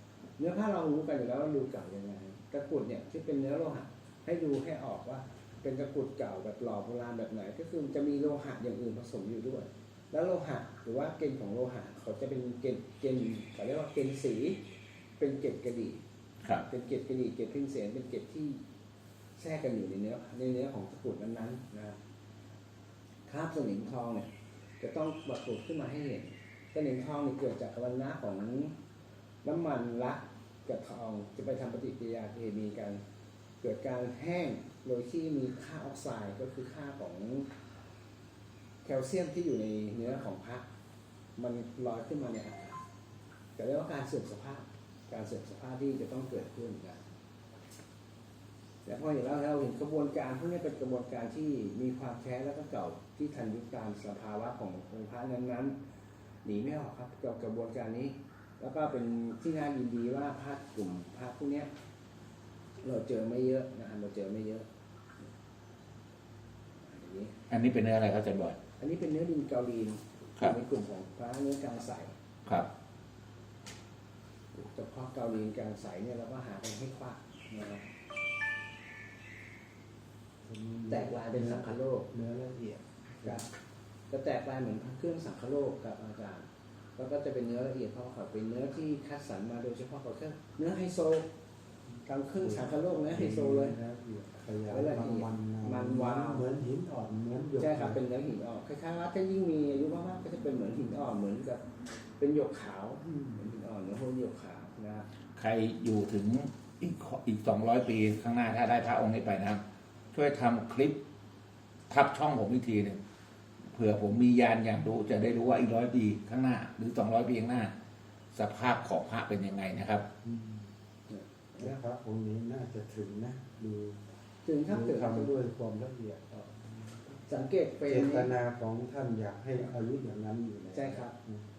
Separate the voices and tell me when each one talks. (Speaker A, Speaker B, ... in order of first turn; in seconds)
Speaker A: 0.4-14.6, 15.2-16.0, 16.7-18.6, 19.4-22.0, 23.3-28.7, 29.4-33.0, 33.6-37.5, 38.8-40.6, 41.4-42.8, 43.6-47.1, 48.8-55.8, 56.4-61.7, 62.8-64.7, 66.8-67.3, 68.8-72.2, 74.5-77.9, 80.9-82.1, 84.1-91.3, 92.0-93.8, 94.7-96.5, 97.6-101.6, 102.2-105.1, 121.1-121.8, 124.4-125.3, 127.3-128.3, 130.7-131.1
Speaker B: 67.5-68.6, 105.4-109.6, 110.1-111.0, 111.9-113.0, 113.7-117.7, 118.3-120.1
Speaker C: 80.4-83.4, 92.4-98.0, 103.0-103.4, 120.2-120.7, 121.6-124.0, 124.7-127.2, 127.9-131.4